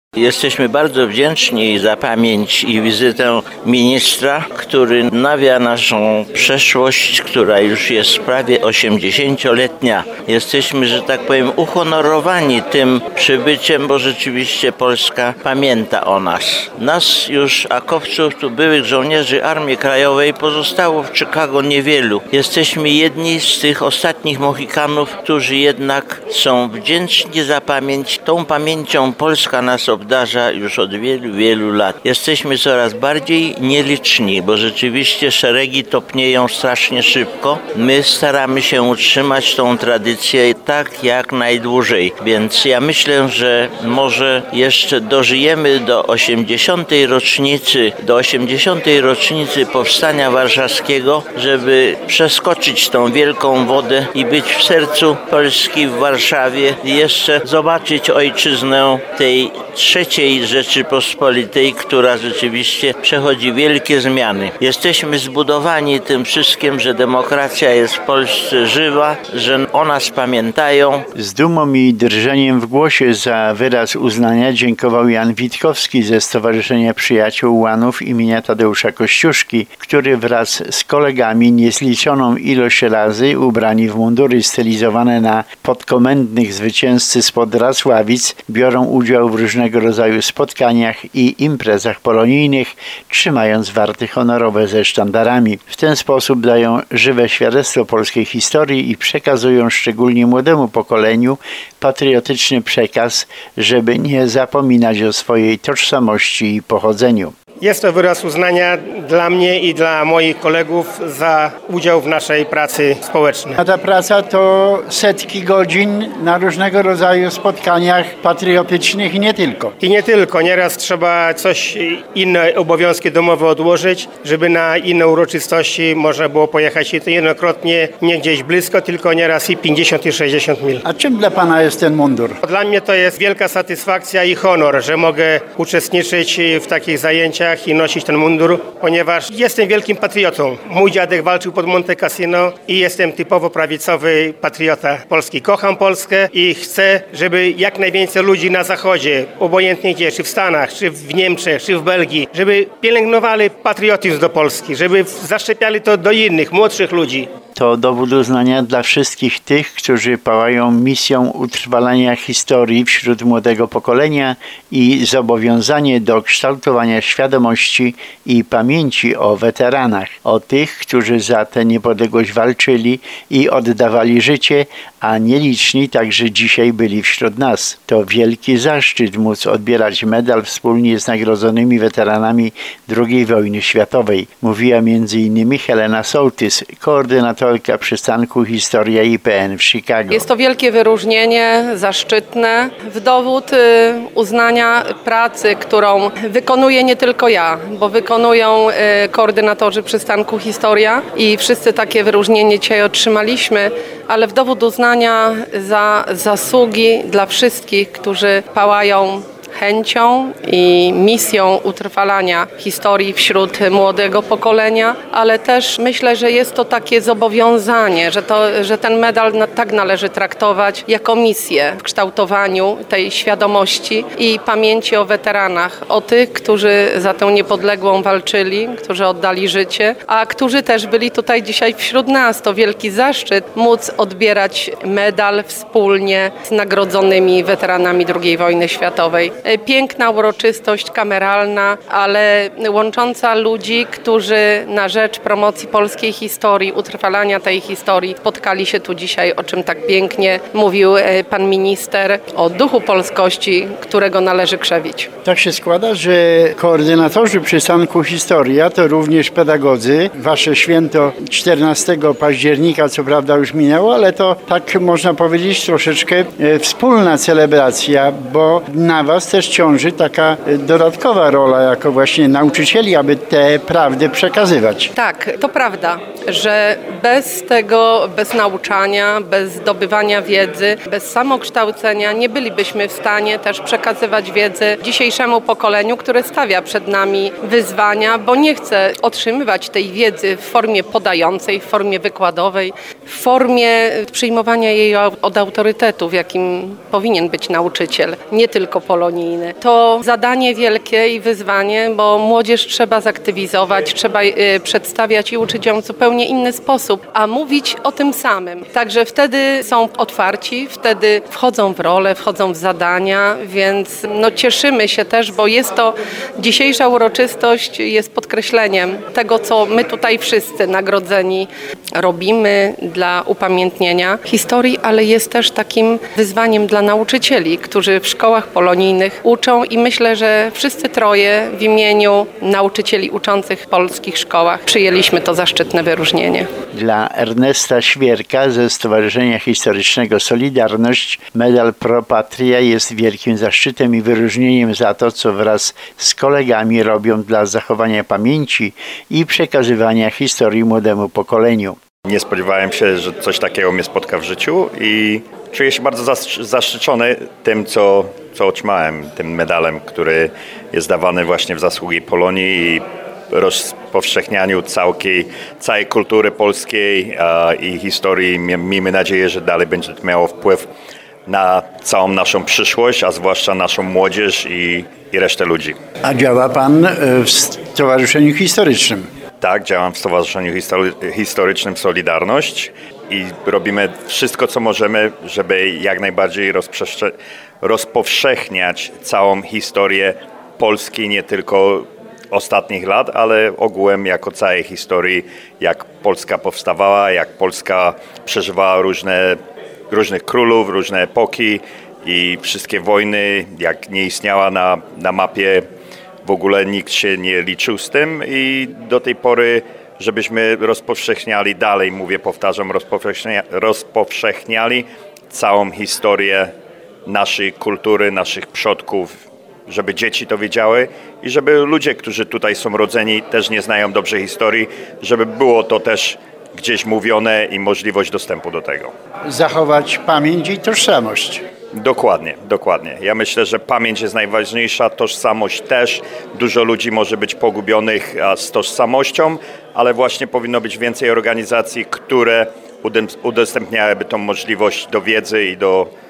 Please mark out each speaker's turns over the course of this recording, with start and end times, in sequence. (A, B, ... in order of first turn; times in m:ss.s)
0:00.2-1:11.0 A
1:11.1-1:47.3 B
1:47.6-1:53.6 C
1:53.6-1:59.8 B
1:59.8-2:10.8 C
2:10.8-2:12.4 B
2:12.4-2:37.3 C
2:37.6-3:10.3 B
3:10.1-4:15.1 D
4:15.2-4:34.9 B
4:34.9-5:36.5 D
5:36.7-5:51.8 B
5:52.0-6:10.7 E
6:11.2-6:15.8 E
6:16.0-6:19.1 B
6:19.4-6:39.4 E
6:39.9-6:45.6 E
6:46.2-6:56.5 E
6:57.0-7:08.9 E
7:09.3-7:11.4 B
7:11.7-7:25.9 E